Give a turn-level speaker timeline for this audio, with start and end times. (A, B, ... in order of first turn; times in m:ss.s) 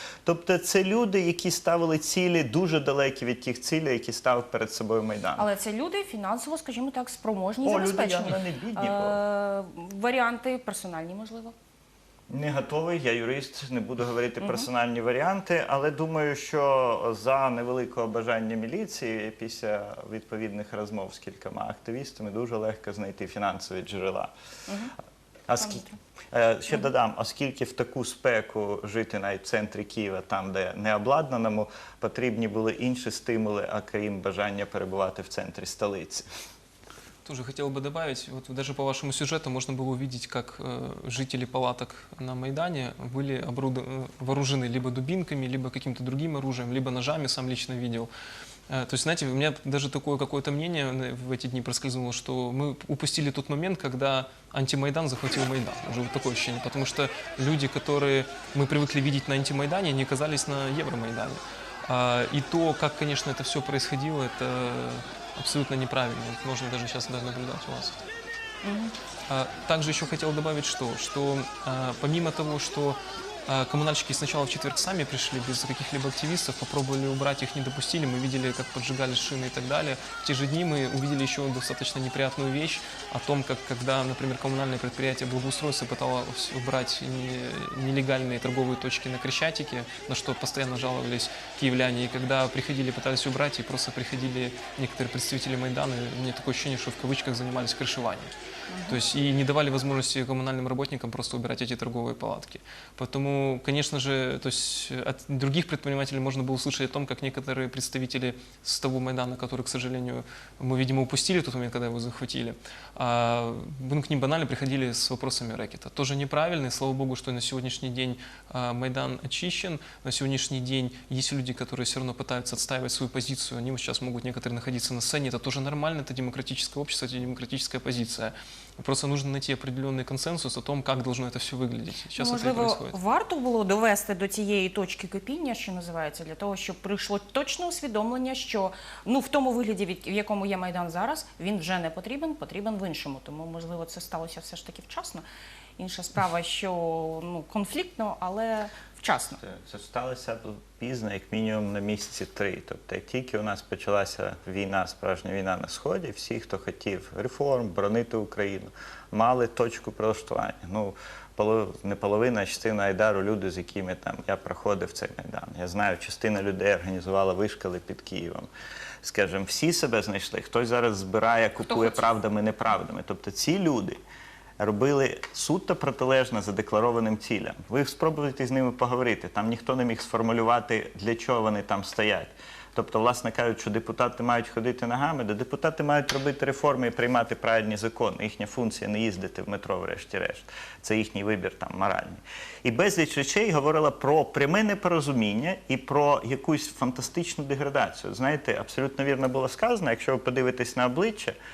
0:00.2-0:05.5 A
0:05.4-0:11.5 B
0:07.6-0:09.2 A
0:12.3-0:24.3 A
0:14.4-0:14.6 B
0:24.7-0:24.9 B
0:25.5-0:36.3 A
0:25.6-0:26.0 B
0:37.2-0:48.1 C
0:48.7-1:08.0 C
1:08.6-1:08.9 B
1:09.3-1:38.3 C
1:38.7-1:39.0 B
1:38.9-2:12.9 C
2:12.2-2:25.2 B
2:25.8-2:29.4 B
2:29.4-2:48.5 A
2:49.0-2:54.0 A
2:51.7-2:52.0 B
2:54.6-3:21.4 A